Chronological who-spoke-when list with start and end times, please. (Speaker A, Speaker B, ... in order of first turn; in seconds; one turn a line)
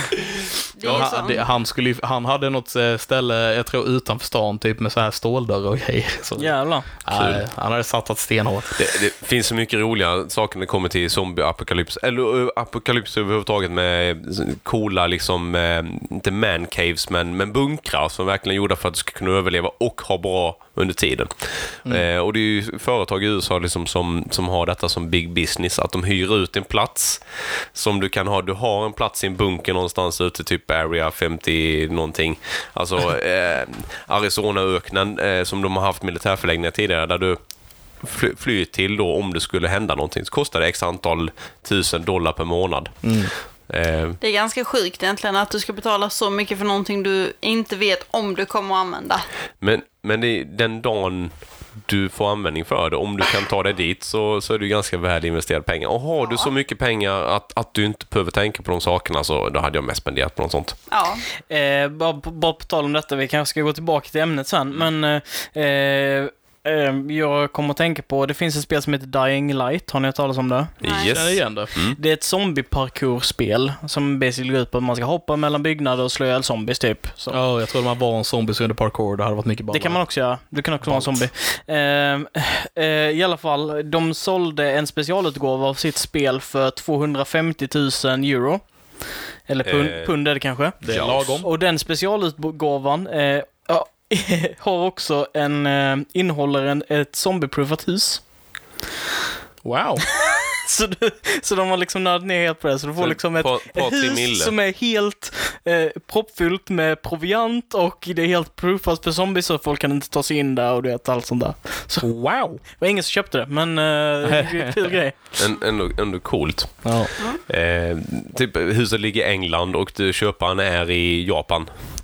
Speaker A: 0.7-1.4
Speaker B: 0.8-8.8
Speaker C: 6.4-6.9
Speaker D: 7.1-7.4
Speaker D: 8.8-27.2
Speaker D: 27.7-37.4
Speaker D: 38.0-43.1
Speaker B: 43.0-43.3
Speaker D: 43.7-44.2
Speaker A: 44.2-49.3
Speaker D: 49.6-60.8
Speaker A: 56.2-56.5
Speaker A: 60.9-61.2
Speaker C: 61.5-70.7
Speaker A: 70.8-71.1
Speaker D: 70.8-72.0
Speaker B: 71.1-71.7
Speaker C: 72.0-77.4
Speaker B: 77.3-80.0
Speaker C: 79.7-88.6
Speaker B: 80.8-81.2
Speaker C: 89.5-98.2
Speaker D: 89.6-90.1
Speaker B: 90.8-91.5
Speaker D: 90.9-91.4
Speaker B: 99.6-100.1
Speaker C: 100.1-112.1
Speaker D: 103.0-104.5
Speaker B: 112.0-112.6
Speaker C: 112.6-115.2
Speaker B: 114.2-114.9
Speaker D: 115.3-121.7
Speaker B: 116.8-117.1